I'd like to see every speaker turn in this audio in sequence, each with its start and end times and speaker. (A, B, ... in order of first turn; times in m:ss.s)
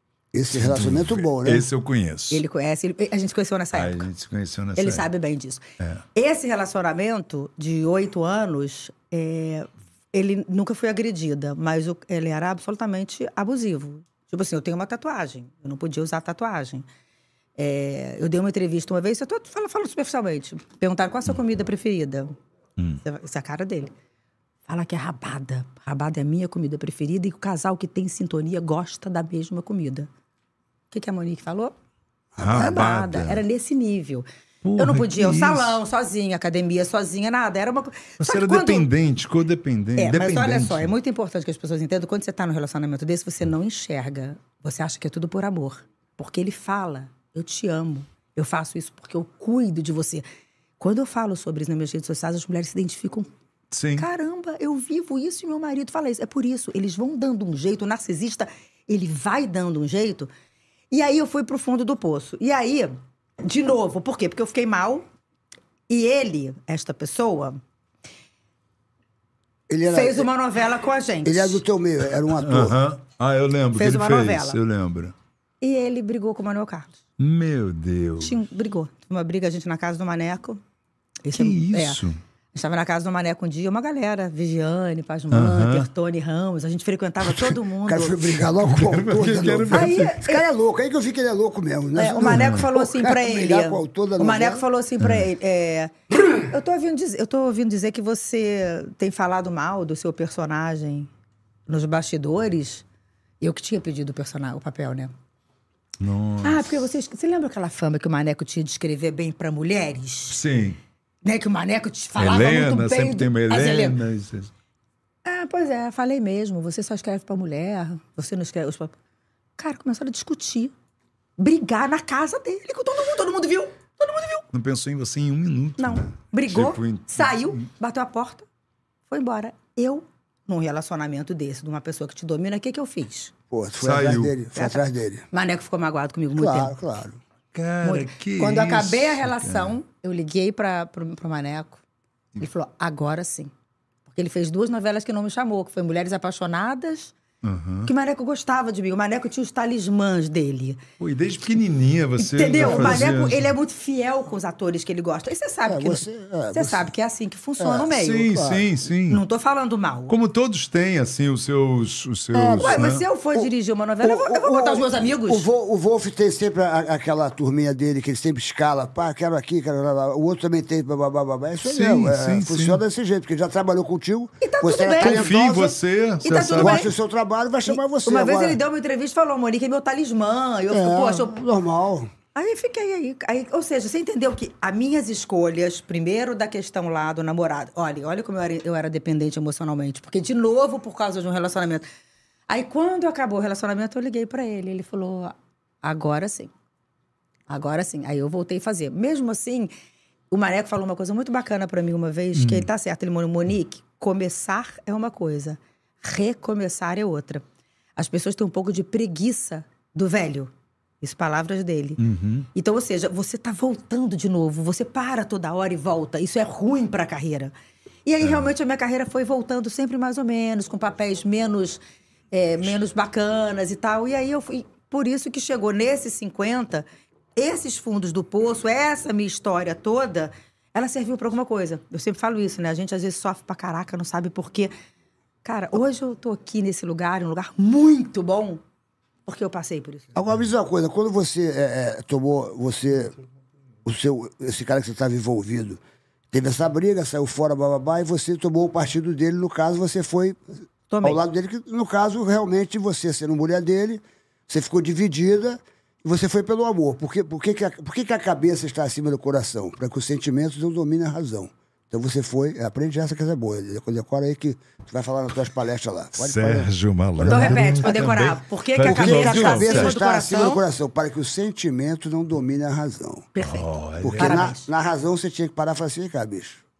0:00.3-0:01.7 A
0:00.5-0:02.4 B
0:02.3-0:04.1 C
0:03.7-0:05.1 B
0:04.8-0:16.8 C
0:17.6-0:22.4 C
0:23.0-0:23.9 C
0:24.7-0:30.1 C
0:30.9-0:31.7 C
0:32.4-0:33.4 B
0:32.4-0:34.2 C
0:34.6-0:35.8 B
0:34.8-0:38.9 C
0:38.2-0:40.9 B
0:40.0-0:50.2 C
0:50.8-0:53.3 C
0:53.7-0:54.0 B
0:54.0-1:00.3 C
1:00.9-1:05.0 C
1:05.9-1:07.6 C
1:09.7-1:10.3 A
1:09.9-1:11.6 C
1:11.2-1:12.8 A
1:12.3-1:15.1 B
1:13.8-1:14.6 C
1:15.6-1:17.0 C
1:17.2-1:18.4 B
1:18.2-1:20.6 C
1:21.2-1:22.0 C
1:21.3-1:22.2 B
1:22.5-1:28.4 C
1:25.3-1:25.9 B
1:27.8-1:34.6 A
1:28.6-1:30.1 B
1:29.7-1:30.4 C
1:31.9-1:41.1 C
1:32.4-1:32.6 B
1:41.7-1:42.8 C
1:43.4-1:45.1 C
1:46.0-1:46.8 B
1:46.4-1:50.4 C
1:50.3-1:50.8 B
1:51.2-1:54.0 C
1:52.2-1:54.5 B
1:55.2-1:58.9 C
1:59.6-2:00.7 C
2:01.4-2:04.4 C
2:04.5-2:07.6 B
2:05.8-2:08.5 C
2:09.1-2:13.3 C
2:13.5-2:15.2 A
2:13.8-2:14.3 B
2:14.6-2:16.7 C
2:16.3-2:17.2 A
2:17.5-2:19.8 B
2:17.8-2:21.8 C
2:22.4-2:23.5 C
2:24.1-2:27.1 C
2:27.4-2:27.9 B
2:27.8-2:30.8 C
2:31.0-2:33.5 B
2:32.2-2:38.4 C
2:32.6-2:33.0 A
2:35.6-2:36.9 A
2:37.6-2:38.6 A
2:37.9-2:39.2 B
2:39.1-2:40.1 C
2:40.1-2:43.0 B
2:42.3-2:43.5 A
2:42.6-2:45.4 C
2:44.0-2:55.7 A
2:51.6-2:52.8 B
2:54.4-2:55.3 C
2:55.0-2:56.9 B
2:56.2-2:56.9 C
2:56.5-2:58.6 A
2:57.7-3:01.4 C
3:00.7-3:02.1 A
3:02.3-3:11.8 C
3:12.5-3:16.5 C
3:17.5-3:19.7 C
3:20.3-3:27.4 C
3:22.3-3:22.7 B
3:28.0-3:32.0 C
3:32.0-3:32.5 B
3:32.5-3:37.5 C
3:38.0-3:46.8 C
3:47.4-3:54.7 C
3:55.4-3:58.6 C
3:59.2-4:00.1 C
4:00.1-4:03.2 A
4:03.8-4:05.8 A
4:06.3-4:10.4 A
4:10.9-4:11.2 C
4:11.0-4:26.7 A
4:26.2-4:29.9 B
4:27.2-4:28.0 A
4:27.2-4:30.6 C
4:28.8-4:33.3 A
4:33.3-4:34.7 C
4:33.4-4:34.5 B
4:34.0-4:36.6 A